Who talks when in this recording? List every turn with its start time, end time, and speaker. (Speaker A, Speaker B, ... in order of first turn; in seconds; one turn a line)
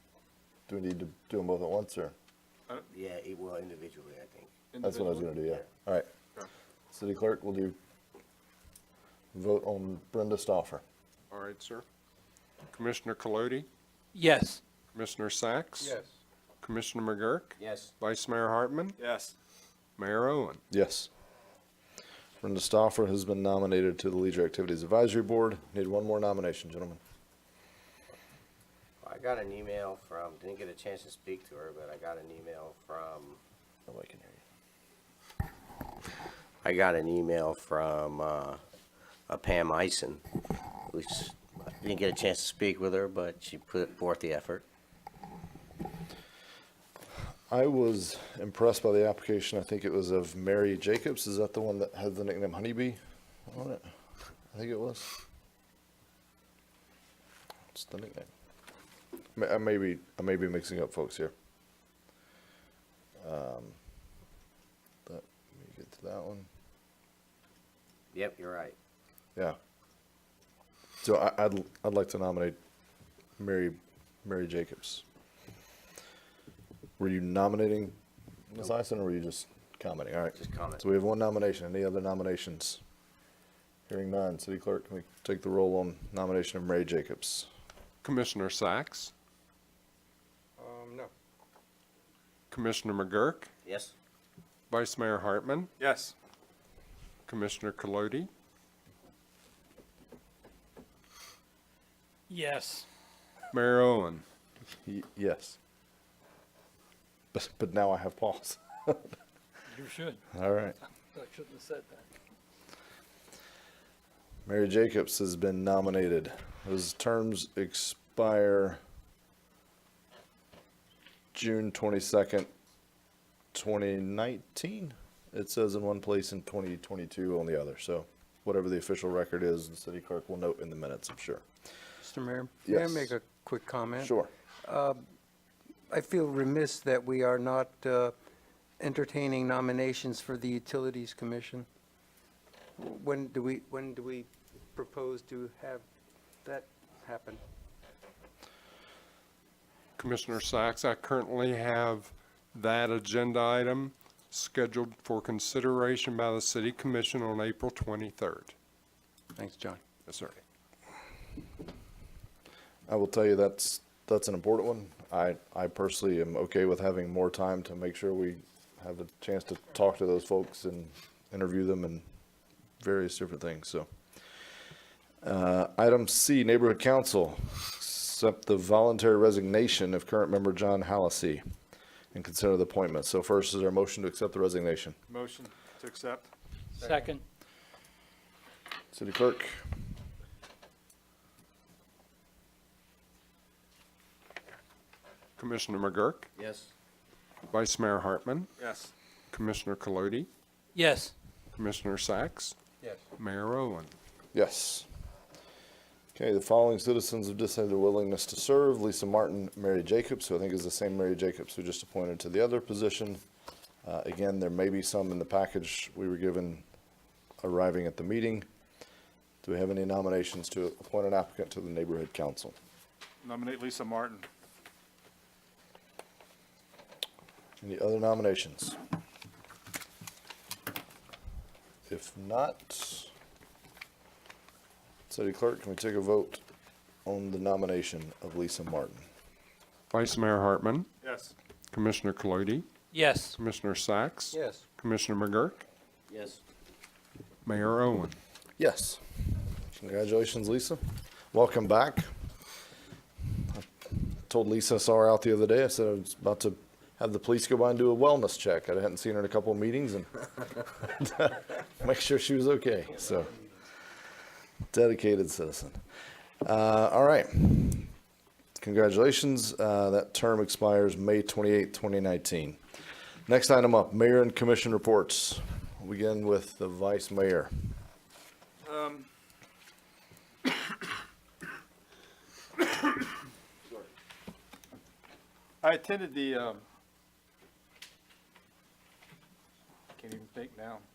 Speaker A: 0.7-2.1
Speaker B: 2.9-4.5
Speaker C: 4.7-5.3
Speaker A: 4.8-6.1
Speaker A: 6.9-7.8
Speaker A: 9.3-10.8
Speaker D: 11.3-11.8
Speaker D: 12.7-13.7
Speaker E: 14.1-14.6
Speaker D: 14.9-15.9
Speaker F: 15.8-16.1
Speaker D: 16.6-19.0
Speaker B: 17.6-17.9
Speaker C: 19.0-19.3
Speaker D: 20.0-20.6
Speaker A: 20.7-21.1
Speaker A: 22.4-27.0
Speaker B: 29.0-33.4
Speaker A: 33.9-34.4
Speaker B: 36.6-38.6
Speaker B: 39.3-40.2
Speaker B: 40.9-44.6
Speaker A: 47.5-53.9
Speaker A: 54.5-55.1
Speaker A: 57.7-58.3
Speaker A: 59.4-61.3
Speaker A: 63.2-63.8
Speaker A: 65.1-66.5
Speaker B: 68.1-68.8
Speaker A: 71.0-72.6
Speaker A: 73.4-75.0
Speaker A: 77.0-78.0
Speaker A: 78.5-82.8
Speaker B: 80.3-80.8
Speaker A: 83.9-87.5
Speaker D: 88.0-89.1
Speaker F: 90.6-91.1
Speaker D: 92.5-93.5
Speaker B: 93.6-93.9
Speaker D: 94.7-95.7
Speaker C: 95.8-96.1
Speaker D: 97.3-98.3
Speaker E: 102.3-102.9
Speaker D: 103.5-104.2
Speaker A: 104.8-105.6
Speaker A: 107.3-109.2
Speaker E: 109.7-110.2
Speaker A: 110.3-110.7
Speaker E: 111.1-112.0
Speaker A: 114.5-118.8
Speaker A: 121.3-122.5
Speaker A: 123.5-131.4
Speaker F: 132.0-135.0
Speaker A: 132.7-133.1
Speaker A: 134.0-134.3
Speaker F: 135.9-138.1
Speaker F: 138.8-141.7
Speaker F: 142.8-145.8
Speaker F: 146.4-147.4
Speaker D: 150.0-158.5
Speaker F: 159.3-159.8
Speaker D: 160.1-160.4
Speaker A: 162.9-172.0
Speaker A: 172.8-173.9
Speaker A: 175.2-181.4
Speaker A: 182.1-185.0
Speaker C: 185.1-186.3
Speaker E: 186.8-187.2
Speaker C: 186.8-187.1
Speaker A: 188.9-189.6
Speaker D: 195.4-196.3
Speaker B: 196.3-196.7
Speaker D: 197.5-198.5
Speaker C: 198.6-198.9
Speaker D: 199.3-200.3
Speaker E: 200.7-201.1
Speaker D: 201.6-202.5
Speaker D: 203.2-203.9
Speaker A: 204.3-204.8
Speaker A: 206.1-213.2
Speaker A: 213.8-216.6
Speaker A: 217.4-218.4
Speaker A: 219.4-222.5
Speaker C: 223.2-224.2
Speaker A: 227.6-228.8
Speaker A: 231.9-233.1
Speaker A: 235.1-236.4
Speaker A: 237.0-239.1
Speaker D: 239.9-240.9
Speaker C: 241.0-241.3
Speaker D: 241.7-242.7
Speaker E: 242.9-243.4
Speaker D: 243.3-245.6
Speaker F: 244.3-244.6
Speaker B: 246.1-246.4
Speaker D: 247.4-248.1
Speaker A: 248.6-249.0
Speaker A: 249.7-252.1
Speaker A: 254.3-263.3
Speaker A: 264.7-265.8
Speaker A: 266.4-267.9
Speaker A: 268.6-272.6
Speaker A: 273.3-277.5
Speaker C: 278.6-279.1
Speaker C: 285.6-286.6
Speaker C: 289.9-290.8